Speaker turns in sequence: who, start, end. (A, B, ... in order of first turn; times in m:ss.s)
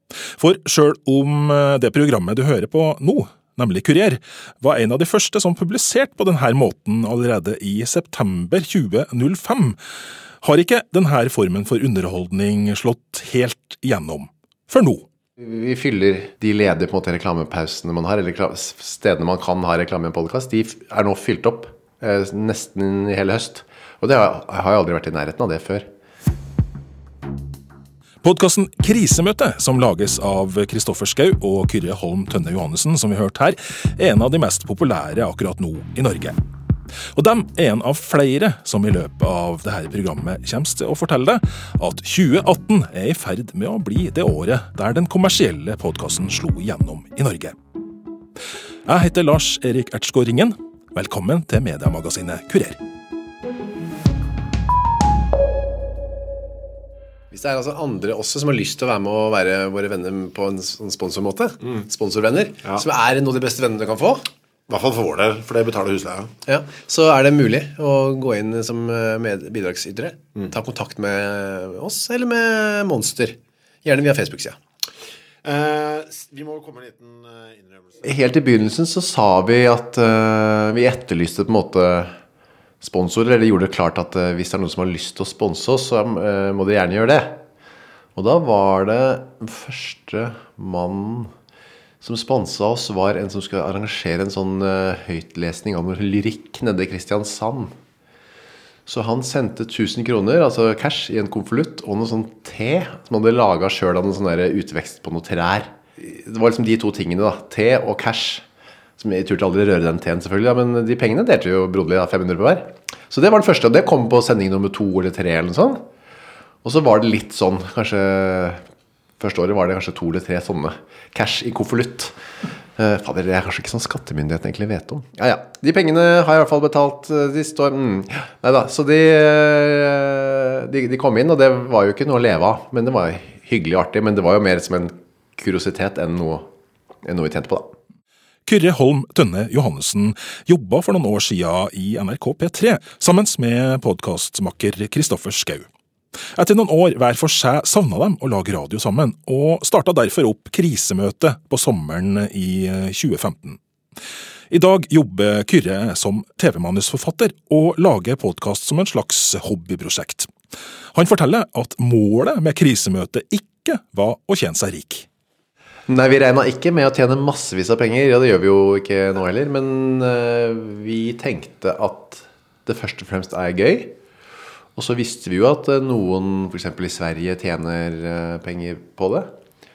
0:00.4-0:09.8 A
0:10.4-0:15.0 A
0:15.4-0:25.9 B
0:28.2-0:36.4 A
0:37.2-0:47.6 A
0:48.9-0:52.8 A
0:57.3-1:04.2 B
1:06.4-1:14.6 B
1:15.4-1:18.2 C
1:18.0-1:22.2 B
1:22.8-1:27.4 B
1:28.2-1:31.3 B
1:32.0-1:37.7 B
1:38.9-1:48.4 B
1:49.0-1:55.8 B
1:56.6-1:58.6 B
1:59.2-2:02.2 B
2:02.8-2:16.5 B
2:17.0-2:17.7 B
2:18.5-2:25.7 A
2:26.4-2:33.6 A
2:34.5-2:40.3 A
2:40.9-2:45.1 A
2:45.9-2:54.0 B
2:54.8-2:59.3 B